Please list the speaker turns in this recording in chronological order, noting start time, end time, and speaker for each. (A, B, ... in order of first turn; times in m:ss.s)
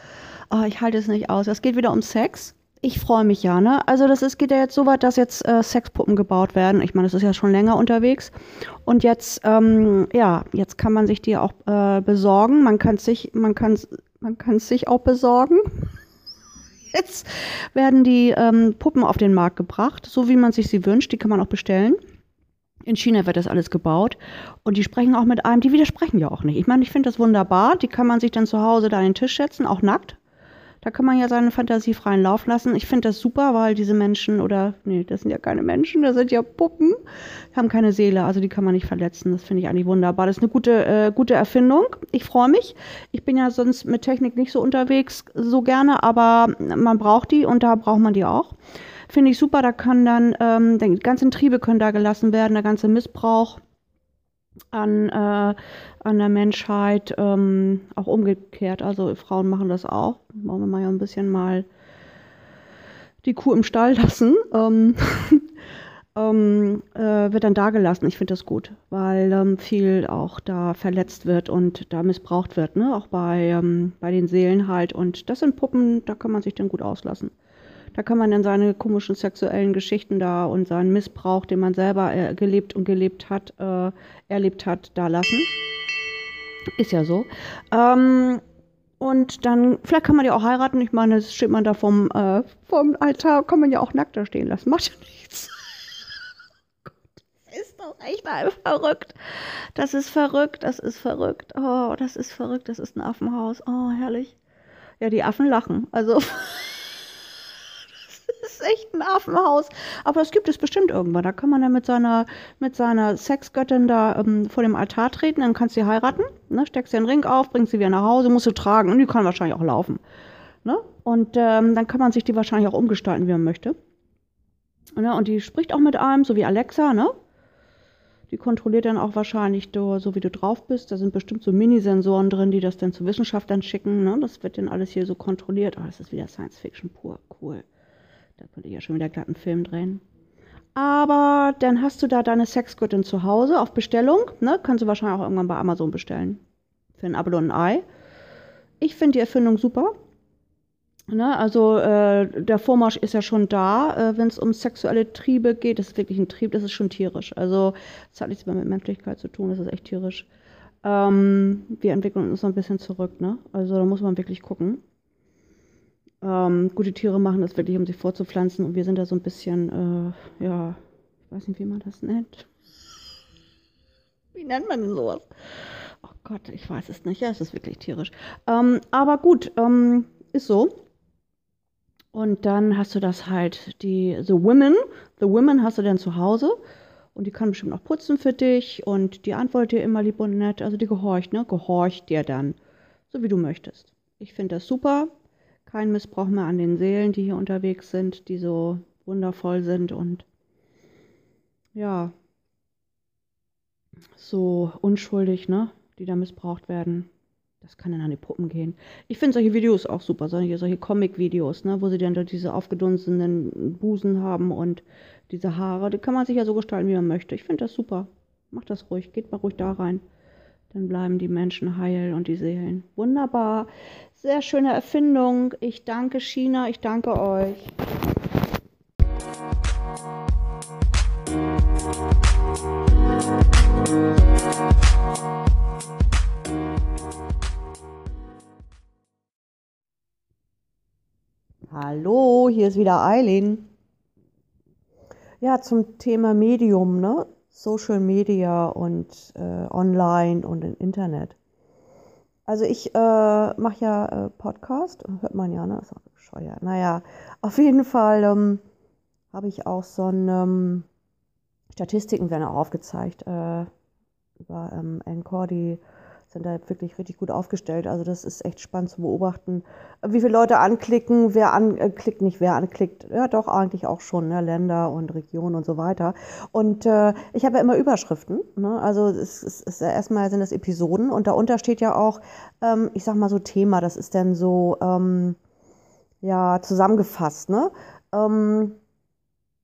0:00.5-0:08.3 A
0:08.8-0:15.9 A
0:16.9-0:22.0 A
0:22.8-0:30.2 A
0:30.8-0:37.0 A
0:37.5-0:48.6 A
0:49.1-0:53.6 A
0:54.7-1:01.7 A
1:03.2-1:05.5 A
1:06.2-1:17.3 A
1:17.9-1:25.5 A
1:26.8-1:28.4 A
1:29.0-1:35.6 A
1:36.8-1:44.4 A
1:45.0-1:46.9 A
1:48.0-2:00.0 A
2:00.6-2:03.8 A
2:05.0-2:07.2 A
2:08.3-2:17.7 A
2:18.4-2:20.0 A
2:20.8-2:26.4 A
2:27.0-2:27.8 A
2:28.8-2:29.9 A
2:31.1-2:40.3 A
2:40.8-2:44.8 A
2:46.2-2:52.5 A
2:54.3-2:55.3 A
2:56.0-3:00.8 A
3:02.1-3:06.6 A
3:07.2-3:12.6 A
3:13.1-3:15.1 A
3:15.7-3:20.3 A
3:21.8-3:22.1 A
3:24.2-3:27.1 A
3:27.6-3:40.0 A
3:40.7-3:47.8 A
4:01.7-4:03.7 A
4:05.4-4:11.4 A
4:12.5-4:18.6 A
4:19.3-4:20.9 A
4:21.7-4:23.7 A
4:24.4-4:45.4 A
4:46.2-4:48.8 A